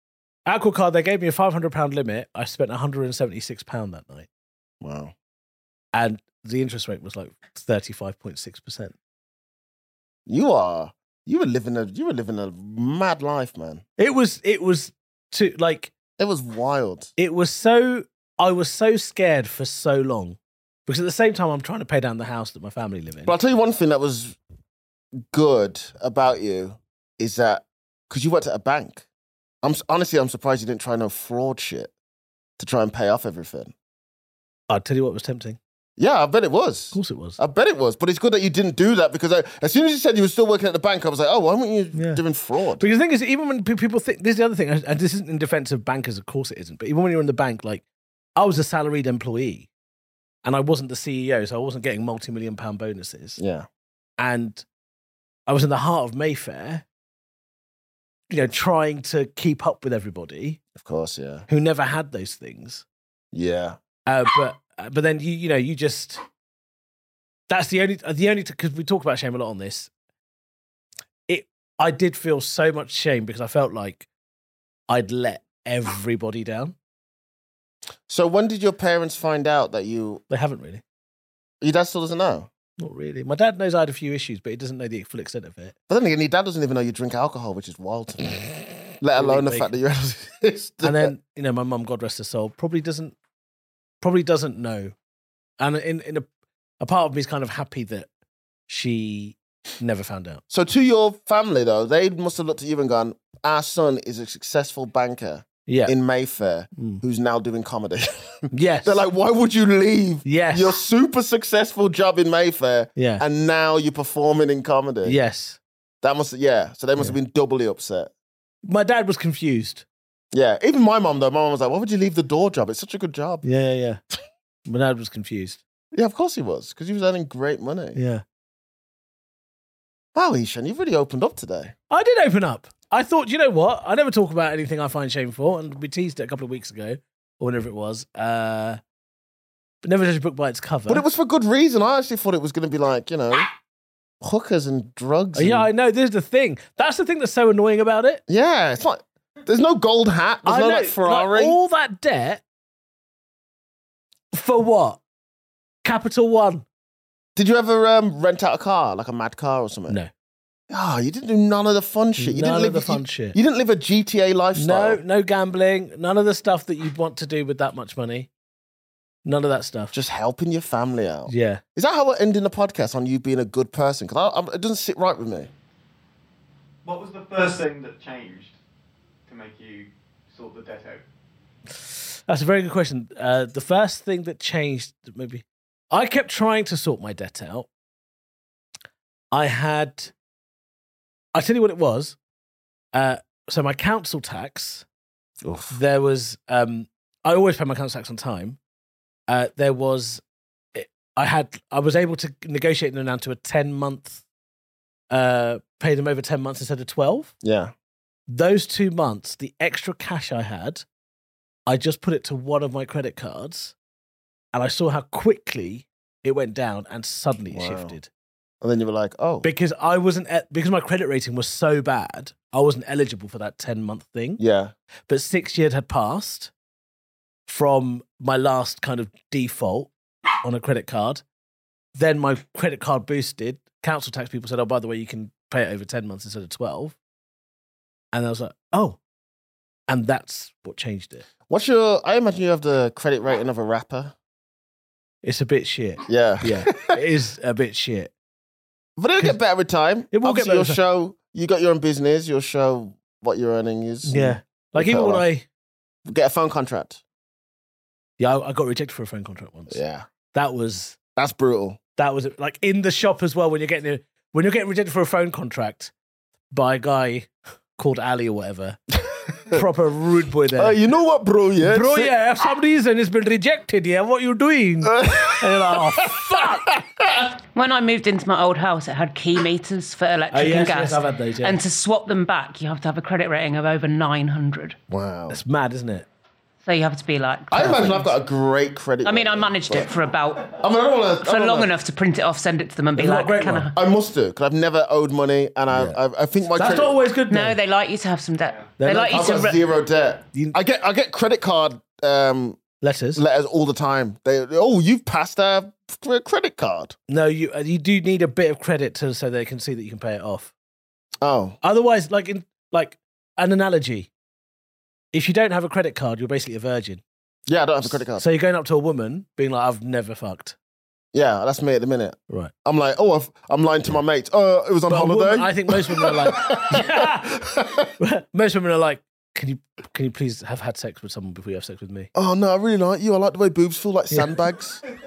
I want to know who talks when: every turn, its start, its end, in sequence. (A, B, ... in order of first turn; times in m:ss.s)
0:00.4-0:04.3 A
0:04.8-0:05.1 B
0:05.9-0:08.9 A
0:10.3-0:13.8 B
0:14.0-0:15.9 A
0:16.2-0:17.1 B
0:17.2-0:23.3 A
0:23.2-0:24.4 B
0:25.3-0:29.0 B
0:29.6-0:31.9 B
0:32.6-0:33.7 B
0:34.7-0:35.6 A
0:36.0-0:42.9 B
0:36.9-0:37.4 A
0:41.9-0:42.2 A
0:42.8-0:47.8 A
0:48.4-0:49.7 A
0:50.4-0:53.4 A
0:53.4-0:53.7 B
0:54.2-0:54.6 A
0:55.5-0:56.8 A
0:58.3-1:00.6 A
1:00.7-1:01.5 B
1:01.5-1:02.8 A
1:03.3-1:03.8 B
1:04.1-1:06.2 A
1:07.5-1:09.9 A
1:11.3-1:14.1 A
1:14.9-1:16.8 A
1:18.1-1:20.2 B
1:20.3-1:20.8 A
1:21.6-1:22.5 B
1:22.8-1:25.7 A
1:25.9-1:31.1 B
1:29.2-1:29.7 A
1:30.8-1:33.1 A
1:34.0-1:34.9 A
1:35.6-1:36.3 A
1:36.8-1:38.1 A
1:38.7-1:40.4 A
1:40.5-1:55.2 B
1:45.6-1:45.9 A
1:46.8-1:47.0 A
1:48.5-1:49.0 A
1:50.2-1:50.8 A
1:53.0-1:53.2 A
1:55.0-1:55.6 A
1:56.0-1:58.1 B
1:58.6-1:59.8 A
2:00.3-2:03.4 B
2:03.4-2:04.0 A
2:04.7-2:05.6 A
2:05.9-2:08.0 B
2:08.0-2:08.2 A
2:10.1-2:11.7 B
2:11.9-2:18.8 A
2:19.8-2:21.0 A
2:20.9-2:23.5 B
2:24.2-2:25.7 B
2:25.3-2:28.2 A
2:28.3-2:31.6 B
2:30.4-2:32.4 A
2:34.3-2:35.0 A
2:35.8-2:36.6 A
2:37.4-2:40.0 B
2:40.7-2:45.0 B
2:42.2-2:43.4 A
2:44.5-2:48.3 A
2:49.2-2:49.9 A
2:49.9-2:55.5 B
2:51.3-2:51.6 A
2:56.8-2:58.6 C
2:59.2-3:01.0 C
3:02.3-3:07.7 A
3:09.3-3:10.1 A
3:11.3-3:12.2 A
3:12.9-3:14.8 A
3:15.4-3:15.8 B
3:15.7-3:18.6 A
3:19.3-3:20.2 A
3:20.7-3:24.2 A
3:25.1-3:27.3 A
3:27.4-3:27.7 B
3:28.3-3:30.8 A
3:31.7-3:33.7 A
3:34.5-3:38.1 A
3:37.5-3:37.9 B
3:38.6-3:39.5 B
3:39.4-3:44.4 A
3:44.4-3:44.7 B
3:45.1-3:46.5 A
3:47.5-3:49.9 A
3:50.4-3:51.2 A
3:52.0-3:57.0 A
3:58.1-3:59.0 A
3:59.9-4:01.3 A
4:01.5-4:04.1 B
4:05.2-4:08.1 A
4:06.1-4:07.0 B
4:09.0-4:15.2 B
4:10.1-4:10.8 A
4:14.0-4:15.4 A
4:16.0-4:17.0 B
4:18.2-4:19.8 A
4:19.7-4:20.1 B
4:20.3-4:21.0 A
4:21.2-4:21.8 B
4:22.0-4:25.9 A
4:26.5-4:28.8 A
4:29.5-4:30.8 A
4:30.6-4:32.1 B
4:31.6-4:36.7 A
4:34.8-4:37.3 B
4:37.5-4:44.8 D
4:40.3-4:41.6 A
4:44.9-4:45.4 B
4:45.3-4:46.0 A
4:46.6-4:48.1 D
4:47.5-4:49.9 B
4:49.0-4:50.6 D
4:50.5-4:51.7 B
4:51.2-4:53.7 D
4:52.9-4:53.7 A
4:53.7-4:57.0 B
4:55.7-4:56.0 A
4:56.5-4:57.6 A
4:57.3-4:59.6 D
4:58.8-4:59.4 A
4:59.0-5:02.6 B
5:02.8-5:03.2 A
5:03.1-5:07.0 B
5:07.1-5:10.5 A
5:11.2-5:11.6 B
5:11.6-5:14.1 A
5:15.1-5:17.0 A
5:17.5-5:18.2 B
5:17.8-5:20.6 A
5:21.1-5:27.9 B
5:24.9-5:27.4 A
5:28.0-5:32.1 A
5:32.1-5:34.8 B